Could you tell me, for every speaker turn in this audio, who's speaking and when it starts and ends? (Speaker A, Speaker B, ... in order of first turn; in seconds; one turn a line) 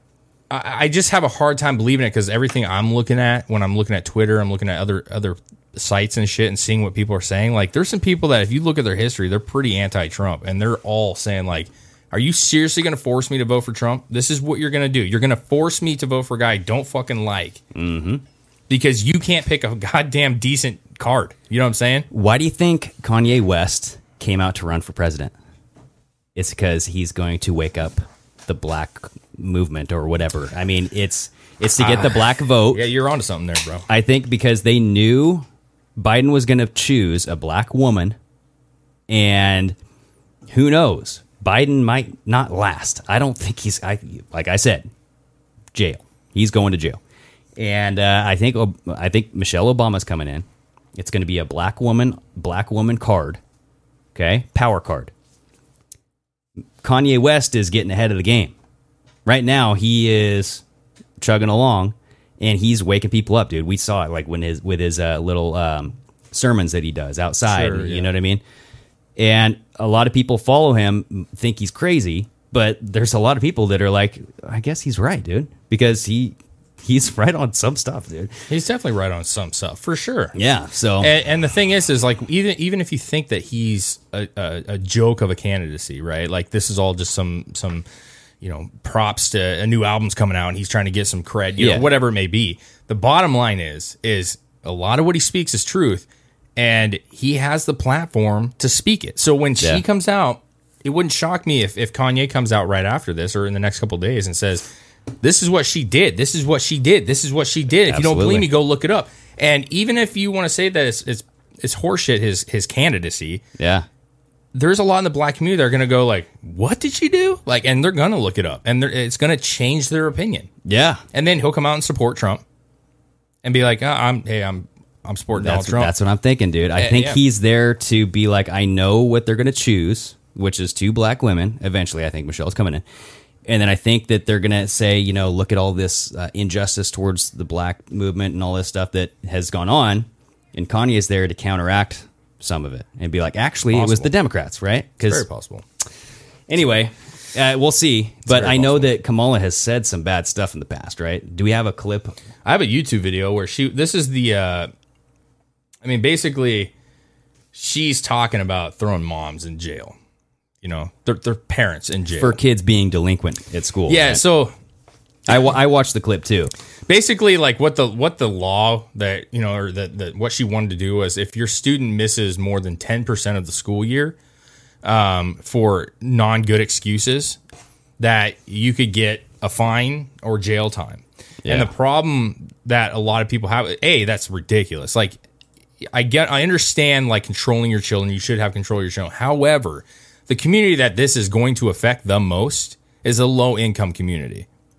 Speaker A: 0.5-17.6
Speaker B: 17.8-18.2
Speaker A: 18.7-22.1
Speaker B: 22.1-25.3
Speaker B: 26.4-32.9
Speaker A: 31.8-33.9
Speaker B: 33.9-38.2
Speaker B: 39.1-39.8
Speaker B: 40.5-44.9
Speaker B: 45.7-47.0
Speaker B: 47.6-53.4
Speaker B: 54.1-55.1
Speaker B: 56.8-58.5
Speaker B: 59.3-60.6
Speaker B: 61.2-68.4
Speaker A: 67.5-68.1
Speaker B: 69.2-78.3
Speaker A: 78.5-80.3
Speaker B: 80.3-81.1
Speaker A: 81.0-87.8
Speaker A: 88.4-104.7
Speaker B: 91.6-91.9
Speaker A: 105.2-113.4
Speaker B: 107.9-108.5
Speaker B: 113.6-113.9
Speaker A: 114.5-120.5
Speaker B: 120.7-121.0
Speaker A: 121.1-122.4
Speaker A: 123.4-125.9
Speaker B: 125.4-132.8
Speaker A: 126.8-127.2
Speaker B: 133.5-145.2
Speaker A: 143.7-144.1
Speaker A: 145.0-145.6
Speaker B: 146.5-152.2
Speaker A: 148.3-148.9
Speaker A: 152.4-154.7
Speaker A: 155.8-156.7
Speaker A: 157.5-159.9
Speaker A: 160.6-162.4
Speaker B: 162.2-164.2
Speaker A: 163.9-164.5
Speaker B: 165.3-166.5
Speaker A: 166.9-174.2
Speaker A: 174.8-177.4
Speaker A: 178.0-185.2
Speaker B: 181.4-181.7
Speaker A: 185.9-194.5